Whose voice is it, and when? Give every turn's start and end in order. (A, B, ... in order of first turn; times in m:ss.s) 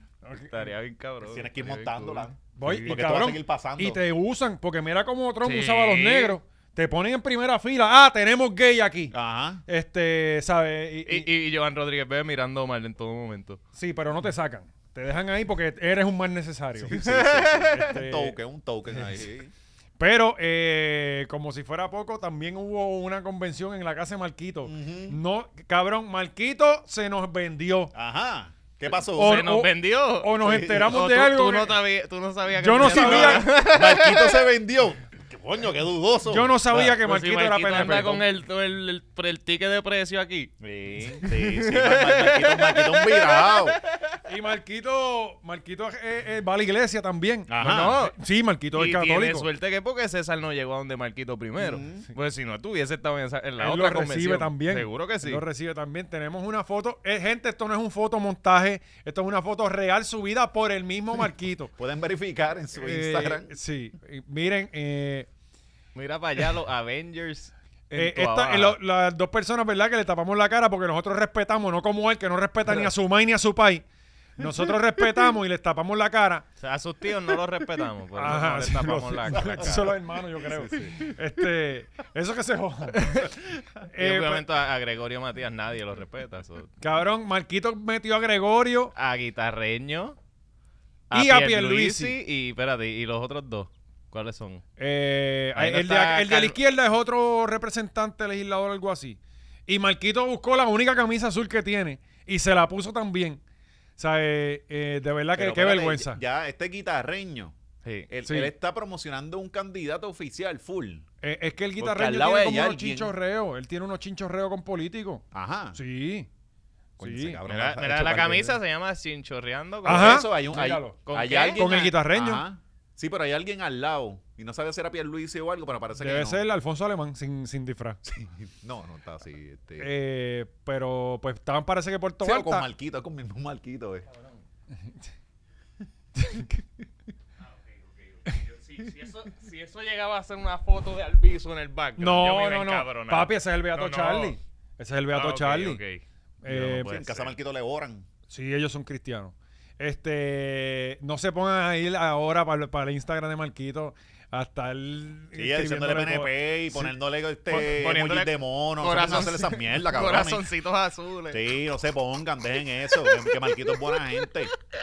0:00.2-0:00.7 A
0:00.5-0:03.0 B
0:01.2-0:04.0 C
0:02.6-0:09.1 A
0:05.4-0:06.4 B
0:09.1-0:09.6 C
0:09.7-0:11.3 A
0:11.1-0:13.6 B
0:13.8-0:16.9 A
0:16.8-0:19.5 C
0:16.9-0:17.9 B
0:17.7-0:18.4 A
0:20.0-0:27.9 A
0:24.6-0:25.2 C
0:27.9-0:29.5 C
0:29.2-0:34.5 B
0:29.2-0:31.8 A
0:30.4-0:31.0 C
0:32.6-0:33.5 A
0:32.8-0:37.0 C
0:36.3-0:38.2 A
0:36.7-0:40.5 B
0:40.6-0:43.8 C
0:41.2-0:44.2 B
0:44.3-0:49.5 A
0:47.5-0:48.0 C
0:47.6-0:48.2 B
0:48.7-0:55.4 B
0:51.6-0:52.1 C
0:53.6-1:01.7 A
1:01.8-1:03.5 C
1:02.8-1:05.3 A
1:06.0-1:08.8 B
1:07.9-1:13.8 A
1:14.4-1:16.4 A
1:16.6-1:19.9 B
1:18.2-1:23.3 A
1:19.3-1:21.1 C
1:23.0-1:23.3 B
1:23.9-1:24.4 A
1:24.0-1:26.7 B
1:26.8-1:28.9 A
1:29.0-1:30.2 B
1:31.1-1:34.6 B
1:31.1-1:32.2 A
1:34.8-1:43.4 A
1:35.5-1:36.6 B
1:44.0-1:46.2 A
1:45.3-1:47.5 C
1:48.1-1:51.0 C
1:48.2-1:48.5 A
1:51.2-1:55.2 A
1:51.8-1:53.2 C
1:55.3-1:55.8 C
1:55.8-1:56.3 A
1:57.0-1:57.4 A
1:57.0-1:58.6 C
1:57.5-2:00.4 B
1:59.8-2:01.0 A
1:59.8-2:06.4 C
2:01.0-2:01.9 B
2:01.5-2:02.4 A
2:06.0-2:08.0 A
2:08.0-2:09.9 C
2:09.8-2:12.7 A
2:12.2-2:14.1 C
2:16.2-2:16.6 A
2:18.1-2:24.4 B
2:22.0-2:25.8 A
2:25.1-2:27.3 B
2:26.4-2:26.9 A
2:26.5-2:28.1 C
2:28.3-2:37.0 A
2:35.3-2:40.5 C
2:37.6-2:41.5 B
2:41.3-2:44.5 C
2:43.1-2:44.0 B